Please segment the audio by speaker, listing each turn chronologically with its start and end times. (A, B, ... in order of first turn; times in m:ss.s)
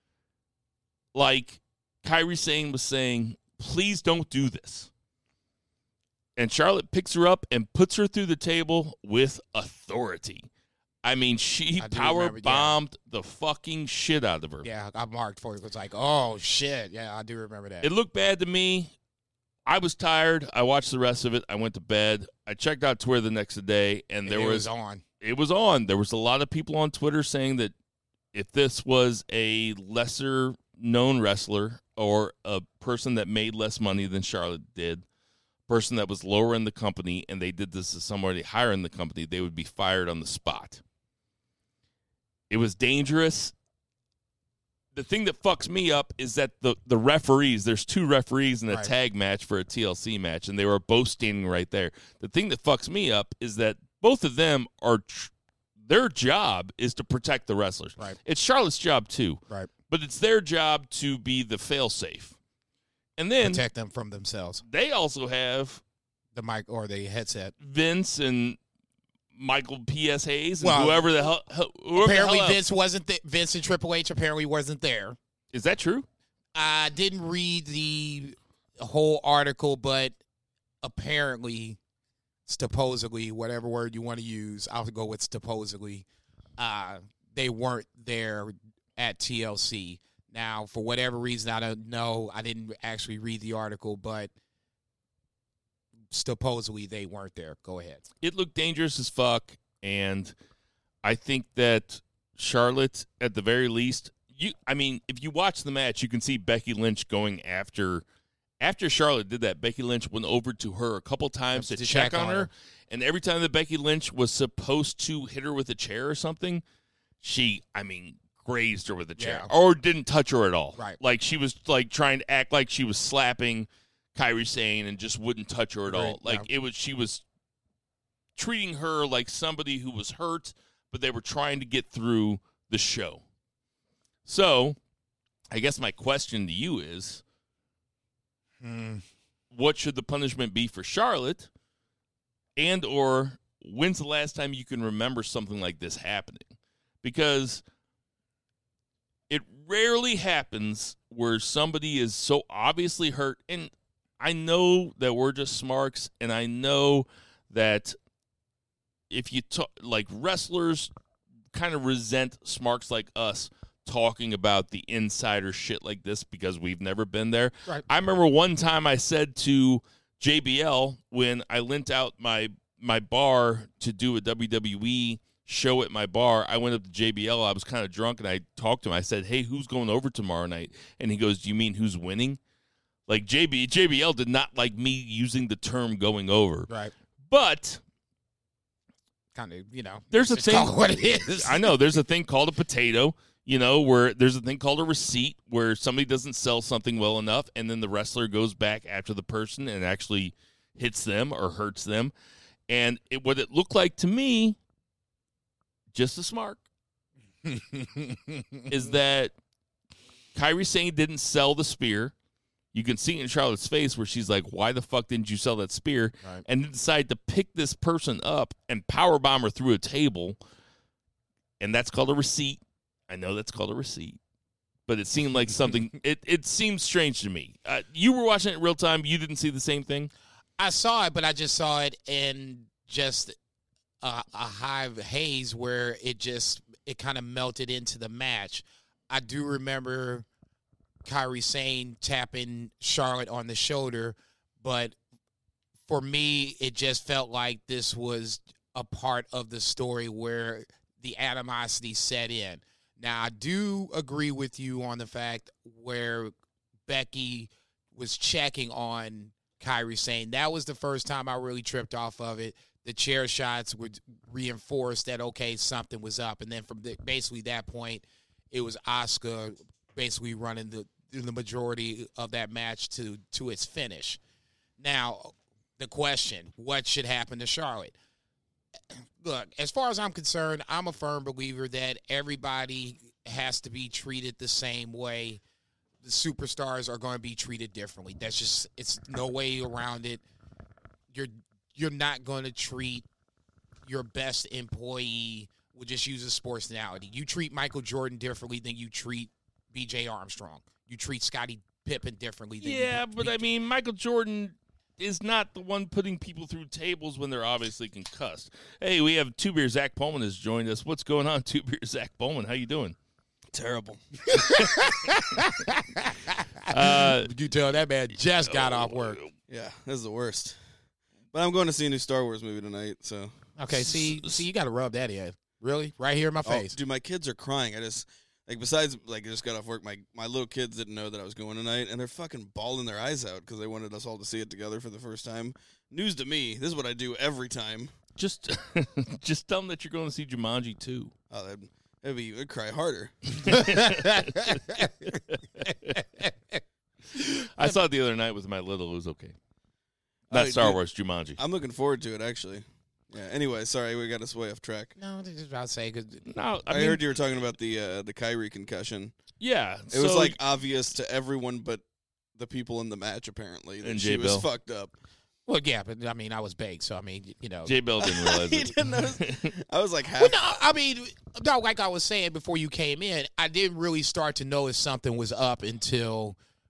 0:01.1-0:04.9 A
0:06.4-0:10.5 A
0:11.0-0:14.7 A
0:11.8-0:12.8 B
0:14.6-0:17.9 B
0:17.8-0:18.9 A
0:19.6-0:24.7 A
0:24.3-0:25.0 B
0:25.2-0:27.7 A
0:28.3-0:35.0 A
0:35.7-0:40.8 A
0:42.5-0:43.5 A
0:44.9-1:02.4 A
1:03.2-1:03.6 A
1:03.4-1:04.6 B
1:04.6-1:05.8 A
1:06.4-1:07.5 B
1:07.6-1:08.6 A
1:09.3-1:12.6 A
1:10.6-1:11.1 B
1:11.9-1:15.2 B
1:15.5-1:16.1 A
1:16.6-1:20.2 B
1:20.8-1:21.8 B
1:22.5-1:26.0 B
1:26.6-1:34.3 B
1:36.1-1:38.0 B
1:38.2-1:40.4 A
1:41.0-1:48.0 A
1:48.6-1:56.6 A
1:51.6-1:52.5 B
1:57.2-2:07.2 A
1:59.2-1:59.5 B
2:05.9-2:06.5 B
2:08.4-2:13.2 A
2:14.2-2:14.8 A
2:15.5-2:17.2 A
2:18.6-2:19.0 B
2:19.5-2:21.5 A
2:22.6-2:27.6 A
2:29.3-2:38.0 A
2:39.1-2:40.9 A
2:41.5-3:02.4 A
3:03.1-3:06.7 A
3:07.2-3:07.8 A
3:09.4-3:11.8 B
3:10.1-3:22.1 A
3:22.7-3:24.6 A
3:25.9-3:26.6 A
3:27.4-3:28.7 B
3:28.7-3:29.4 A
3:30.3-3:32.1 A
3:32.7-3:40.4 A
3:41.6-3:44.2 A
3:44.9-3:50.1 A
3:50.6-3:53.4 B
3:54.0-4:00.3 B
4:01.0-4:05.0 B
4:05.9-4:16.3 B
4:16.9-4:34.2 B
4:34.8-4:37.9 B
4:38.9-4:45.4 B
4:46.0-4:50.2 B
4:51.1-4:53.0 B
4:53.9-5:03.5 B
5:02.6-5:13.0 A
5:13.5-5:14.4 C
5:14.3-5:19.2 B
5:16.7-5:17.3 A
5:18.4-5:19.3 A
5:19.5-5:20.6 C
5:21.3-5:23.5 C
5:23.6-5:26.8 B
5:23.7-5:24.4 A
5:26.4-5:37.9 C
5:38.2-5:41.1 A
5:41.3-5:43.6 C
5:43.4-5:46.0 A
5:43.5-5:46.6 B
5:47.1-5:47.8 B
5:47.6-5:49.4 A
5:50.3-5:50.8 C
5:50.3-5:51.4 A
5:51.4-5:54.9 C
5:55.0-5:56.3 B
5:56.3-5:57.0 A
5:56.7-5:59.2 C
5:59.4-6:00.4 A
5:59.9-6:01.8 C
6:02.4-6:04.9 C
6:03.8-6:04.4 A
6:05.5-6:07.8 B
6:07.6-6:09.5 A
6:08.0-6:10.4 C
6:10.2-6:16.4 B